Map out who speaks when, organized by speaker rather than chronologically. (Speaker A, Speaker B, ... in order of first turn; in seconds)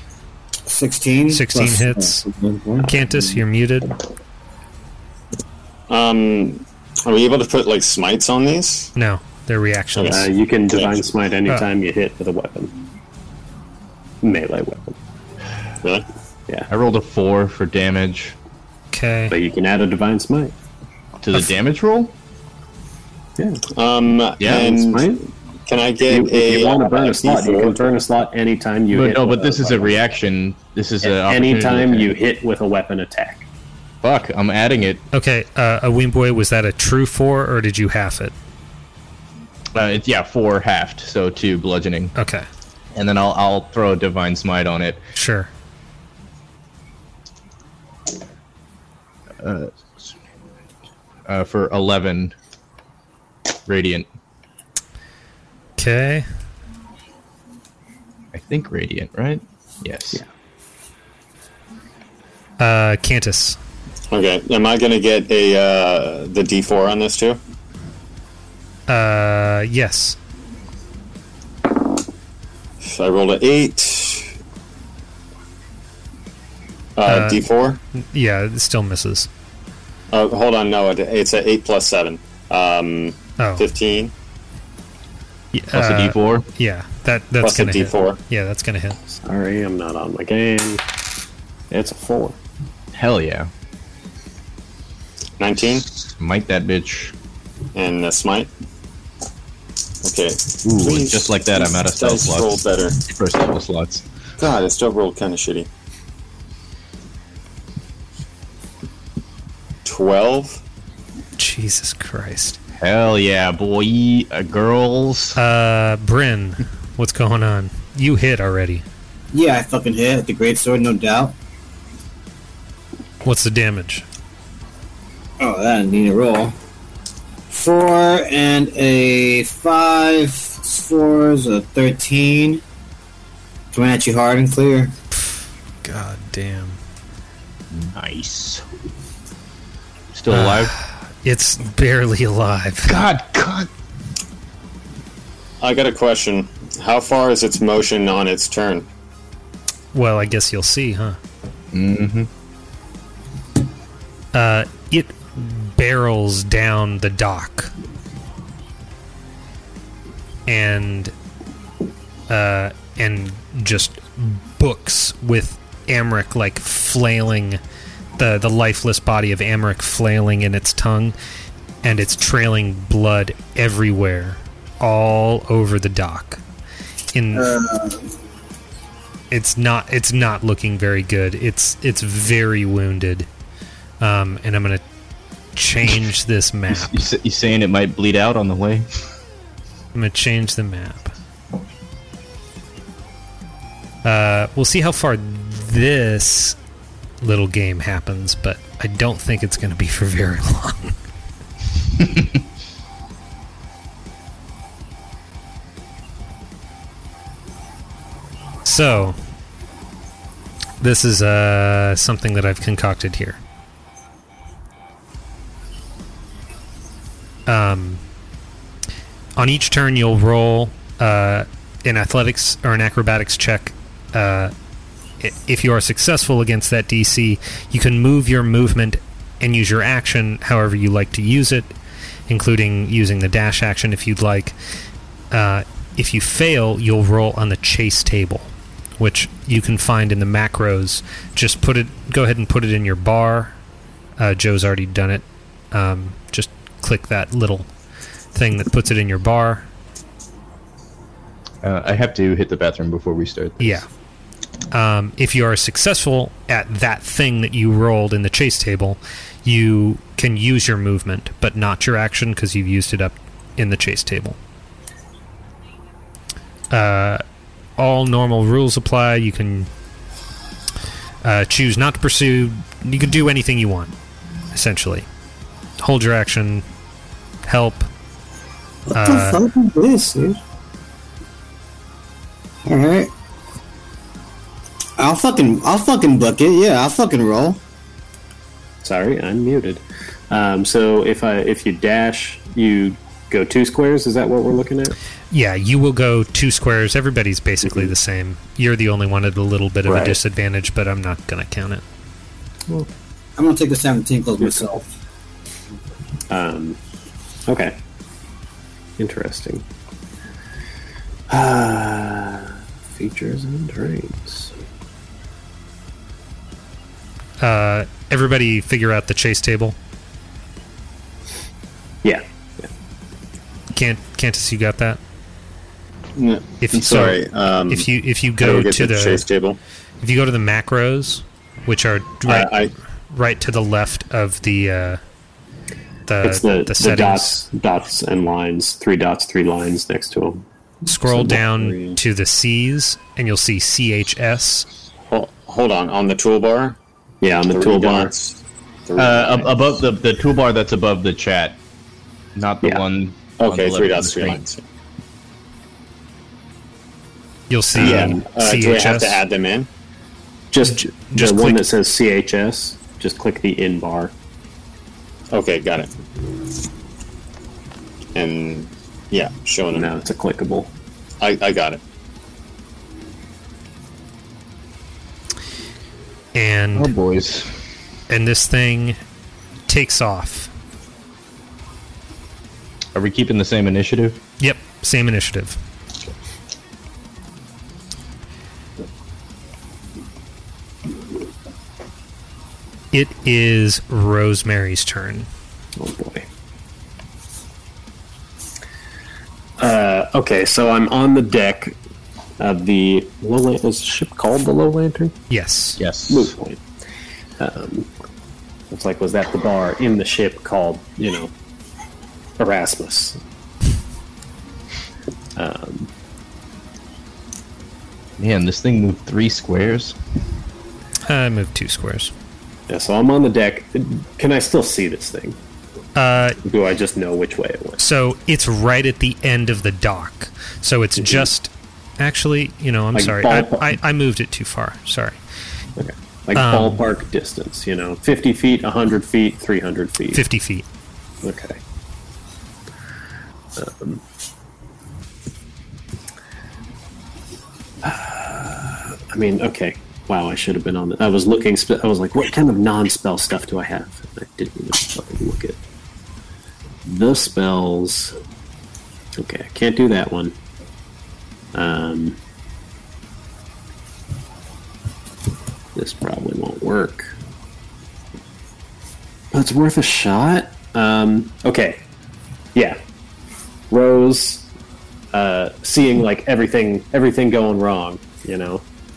Speaker A: 0.7-2.9, 119.3-121.3, 125.4-126.5, 127.5-132.6, 133.7-134.9, 177.3-178.0, 278.9-280.4, 282.6-283.1, 285.0-287.6, 303.4-304.8
Speaker B: 1.3-2.2, 2.8-4.0, 8.9-10.3, 18.9-19.3, 35.1-38.3, 42.1-42.4, 45.1-45.5, 55.8-56.2, 62.6-63.6, 68.9-70.2, 77.0-77.4, 77.9-79.3, 83.4-83.6, 85.5-89.0, 111.4-112.6, 115.3-118.8, 123.2-124.0, 135.8-136.8, 140.3-143.0, 149.9-151.2, 154.3-157.7, 160.5-161.1, 162.3-167.6, 168.2-171.1, 171.8-176.4, 177.1-177.5, 179.3-183.3, 184.0-184.8, 185.6-187.0, 189.9-191.1, 194.0-196.6, 197.2-200.9, 208.6-209.2, 210.8-213.4, 217.5-218.0, 219.4-224.5, 225.2-231.7, 232.3-234.6, 235.3-243.6, 244.2-247.7, 248.3-249.7, 253.6-253.8, 254.7-264.4, 266.7-267.2, 267.8-269.7, 271.2-273.9, 274.5-275.1, 275.8-276.6, 277.4-277.9, 278.9-279.4, 295.3-301.8, 317.4-319.8, 323.7-325.0, 326.6-329.2, 330.0-332.6, 333.1-335.0, 336.1-337.3, 340.9-344.7, 357.5-359.2, 360.6-361.6, 376.3-376.9, 378.1-379.0, 379.7-380.5, 384.4-385.6, 392.9-395.3, 405.3-405.8, 421.0-422.1, 425.9-426.4, 427.8-435.2, 436.3-436.8, 440.1-440.6
Speaker C: 5.9-8.9, 9.9-11.0, 23.7-25.1, 25.7-27.8, 64.1-67.4, 72.8-74.3, 77.0-77.8, 80.1-84.1, 87.4-88.2, 95.4-95.9, 97.7-98.5, 100.0-103.0, 104.4-105.7, 109.8-110.6, 145.6-148.9, 326.1-327.9, 328.4-329.6, 332.3-332.7, 345.1-346.8, 347.5-349.7, 353.4-354.6, 357.8-359.7, 365.3-365.9, 368.1-369.9, 371.2-371.8
Speaker D: 10.1-12.8, 14.2-15.0, 19.3-20.5, 23.4-23.6, 24.4-25.2, 26.1-30.0, 31.0-33.4, 89.2-90.8, 91.7-92.4, 288.8-294.9, 299.9-300.2, 306.3-306.8, 307.5-307.8, 309.0-309.6, 311.3-314.5, 322.0-322.7, 336.2-340.4, 341.1-342.0, 347.2-348.1, 357.8-358.2, 360.5-364.1, 369.7-370.7, 395.8-396.2, 399.6-401.8, 402.4-405.1, 406.1-406.6, 407.4-407.9, 408.7-411.3, 412.4-413.2, 415.4-415.9, 422.7-425.4, 426.4-427.8, 431.0-431.3, 432.9-433.7, 435.8-440.2, 441.2-441.6, 443.6-444.0, 447.8-455.6, 456.9-458.1, 459.1-460.3, 461.5-462.2, 465.8-467.1, 469.3-471.8, 473.7-474.5, 475.1-478.6
Speaker E: 16.7-18.3, 21.2-22.1, 24.4-24.7, 28.9-32.1, 34.0-35.0, 39.8-42.1, 42.9-45.0, 49.4-50.1, 51.3-52.3, 53.7-54.0, 58.3-60.2, 85.7-86.5, 92.9-93.5, 96.0-97.1, 100.6-104.0, 112.8-115.4, 137.7-138.6, 140.1-140.7, 142.9-143.7, 151.7-152.3, 186.7-188.9, 251.6-253.8, 349.0-351.6, 352.4-354.4, 376.7-377.6, 382.9-384.2, 405.8-406.3, 418.2-419.9